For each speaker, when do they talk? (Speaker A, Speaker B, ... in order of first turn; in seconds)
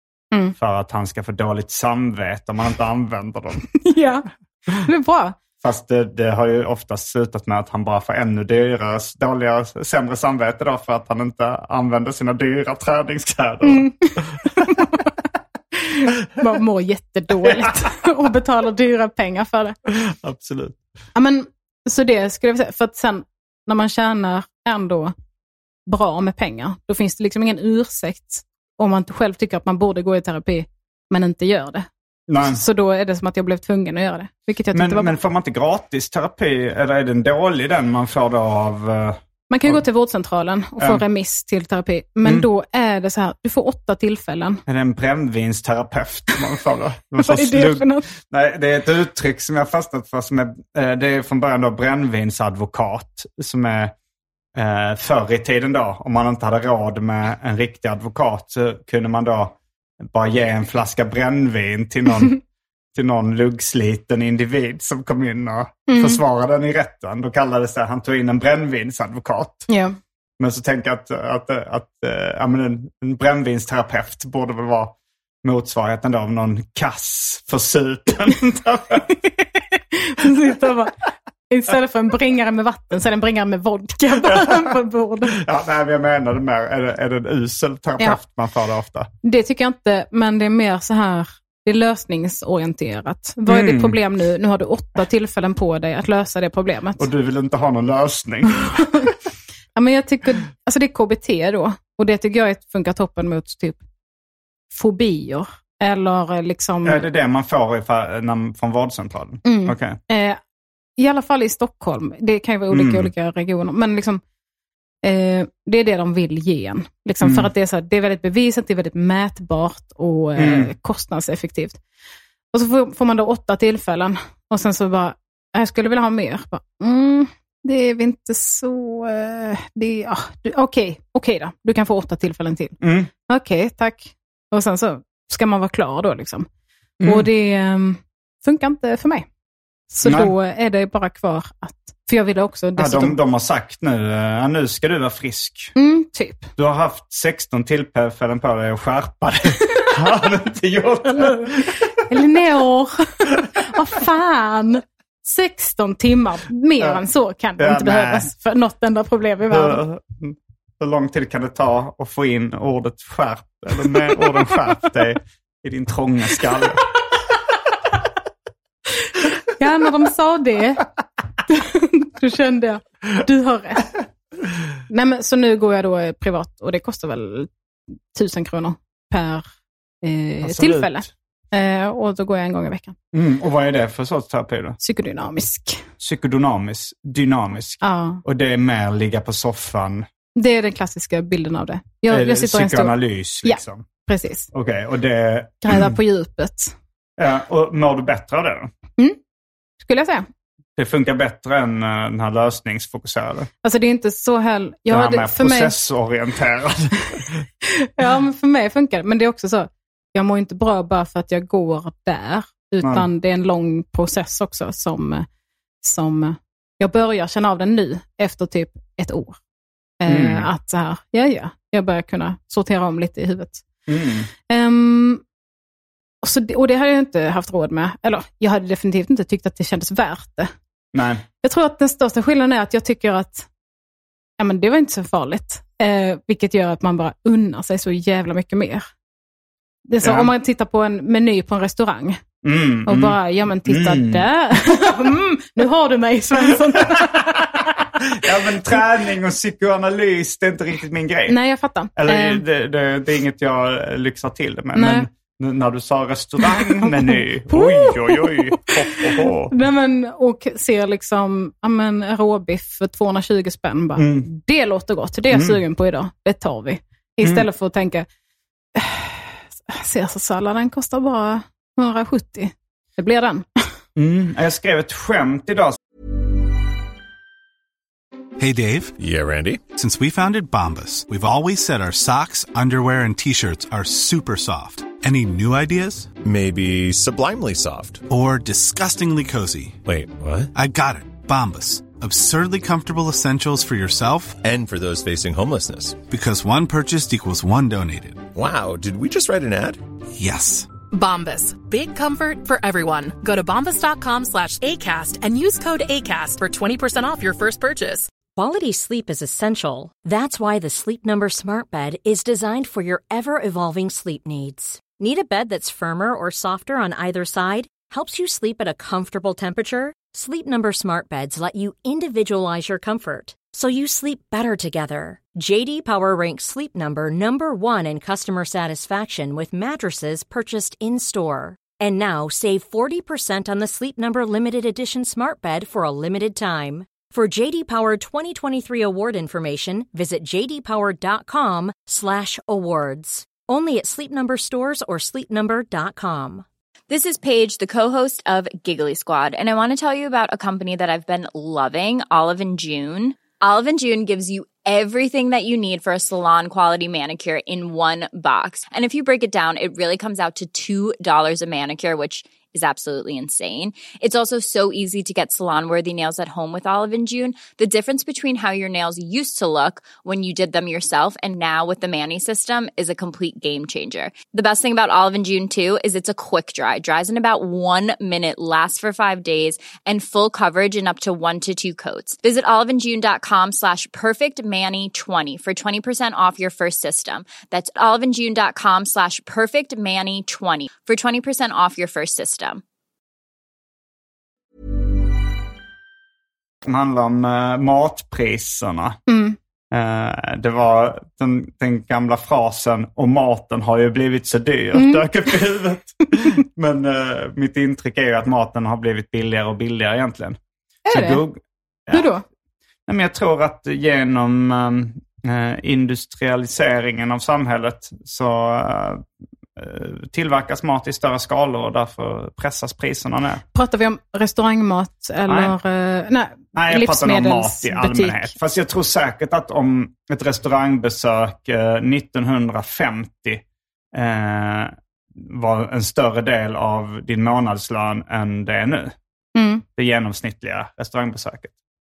Speaker A: 0.6-3.7, 5.6-14.8, 17.4-17.8, 19.9-20.8, 32.3-32.6, 34.7-39.8, 40.8-41.0, 44.7-53.9, 54.5-62.4, 62.9-69.7, 70.4-79.1, 84.2-84.7, 85.3-89.1, 93.5-94.0, 97.0-98.8, 106.8-110.0, 112.7-113.1, 117.2-117.5, 120.4-120.7, 132.8-133.1, 137.0-137.3, 140.0-140.3, 142.8-145.7, 146.6-151.9, 157.6-158.3, 159.5-166.8, 180.4-181.0, 183.1-184.8, 186.0-190.1, 192.1-193.8, 194.5-196.0, 197.2-198.7, 200.8-203.5, 204.9-207.3, 212.8-213.1, 220.1-220.5, 223.9-224.3, 230.9-231.2, 240.0-240.3, 242.4-244.9, 246.7-247.2, 248.0-251.4, 251.9-259.5, 264.0-264.3, 265.3-265.6, 273.9-275.8, 396.6-399.0, 399.7-410.4, 410.9-412.1, 412.9-419.0, 419.6-423.4, 425.2-425.5, 426.5-438.9, 439.8-441.5
Speaker B: 3.8-5.4, 13.6-15.1, 15.8-19.8, 21.1-25.1, 25.9-31.9, 32.4-35.1, 39.5-44.6, 47.2-48.1, 65.9-66.2, 69.7-70.0, 79.1-85.4, 89.2-97.1, 98.7-99.1, 99.7-103.8, 104.7-107.1, 109.4-110.4, 111.0-114.2, 115.0-121.8, 122.5-136.5, 137.0-139.3, 139.9-143.2, 145.8-146.5, 151.2-151.5, 152.1-159.8, 169.5-170.8, 171.5-174.0, 174.9-177.5, 178.1-179.4, 180.0-182.9, 184.8-185.8, 187.8-188.2, 190.3-194.5, 195.6-196.7, 199.8-200.2, 203.6-205.8, 207.6-215.3, 215.8-219.4, 220.0-223.6, 224.5-225.2, 226.2-230.5, 231.4-233.5, 234.4-238.9, 239.9-242.2, 242.8-247.9, 251.3-252.4, 254.7-255.1, 256.4-268.1, 268.7-273.7, 399.1-399.4, 404.7-405.4, 410.9-411.2, 411.9-412.2, 423.5-428.3, 439.3-439.6
Speaker C: 278.4-278.9, 279.7-286.1, 288.1-289.8, 290.5-294.4, 296.1-298.2, 300.1-300.7
Speaker D: 279.0-279.7, 286.2-288.1, 289.9-290.5, 294.4-296.0, 298.3-299.8
Speaker E: 300.9-308.1
Speaker F: 308.4-346.4
Speaker G: 346.9-392.6